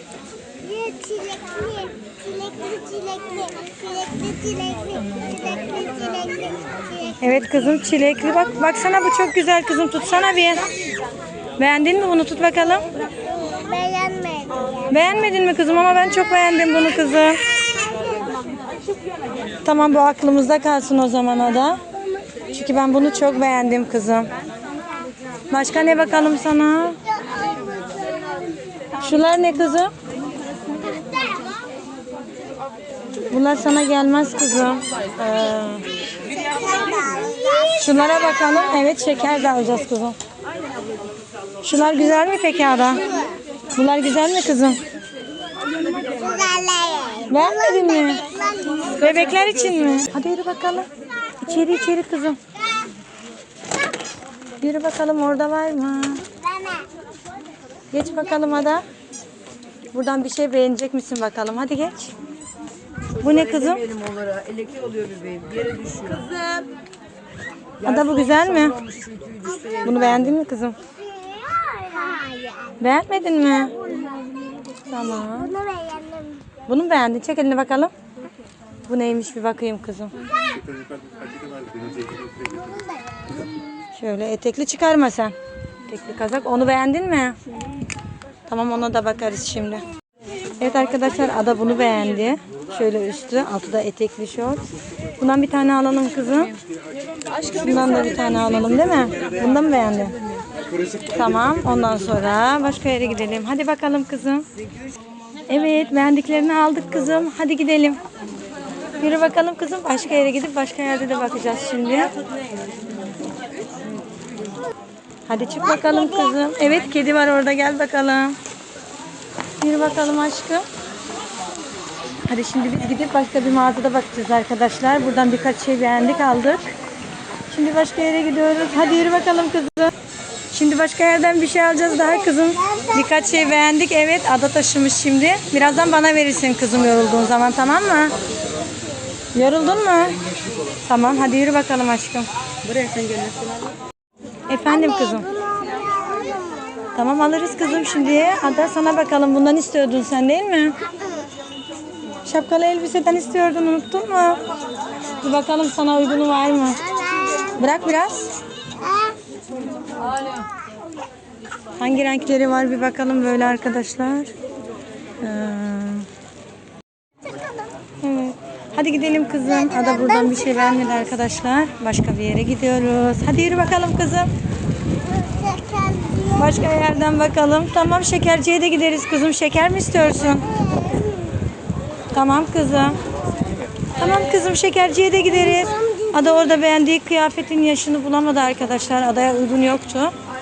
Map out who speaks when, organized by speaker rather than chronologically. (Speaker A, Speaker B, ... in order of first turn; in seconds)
Speaker A: 0.6-7.2, 13.3-14.9, 17.4-18.4, 27.2-27.9, 36.3-38.6, 42.9-43.4, 46.0-49.0, 56.3-56.9, 70.8-72.8, 74.6-76.5, 82.4-83.5, 115.8-116.2, 132.0-133.6, 144.7-147.0, 147.9-148.3, 150.8-151.3, 156.7-157.6, 158.8-159.2, 160.0-160.6, 167.2-167.7, 169.4-171.4, 175.0-176.9, 180.4-181.4, 185.2-186.6
Speaker B: 7.2-10.7, 11.6-12.8, 14.9-17.4, 19.6-21.8, 22.5-24.3, 25.5-27.0, 29.0-29.9, 33.3-35.9, 37.8-40.2, 41.6-43.0, 43.8-44.8, 47.3-48.2, 49.0-50.9, 51.4-52.4, 54.6-56.2, 57.9-58.8, 59.9-62.1, 63.2-63.9, 67.8-68.8, 69.8-70.8, 72.8-73.7, 74.9-75.5, 76.7-77.9, 78.9-80.1, 84.0-85.3, 85.9-87.3, 88.5-89.8, 90.6-94.6, 95.2-96.5, 97.5-100.1, 101.1-104.5, 105.5-108.0, 109.0-112.1, 115.3-118.4, 119.6-120.7, 122.3-126.7, 127.5-129.9, 130.5-138.1, 139.3-140.2, 140.9-142.3, 144.5-145.3, 146.9-150.8, 152.2-154.4, 155.2-156.8, 157.6-158.3, 161.8-164.3, 165.2-166.1, 168.0-174.3, 176.4-180.5, 182.1-183.0, 184.0-190.1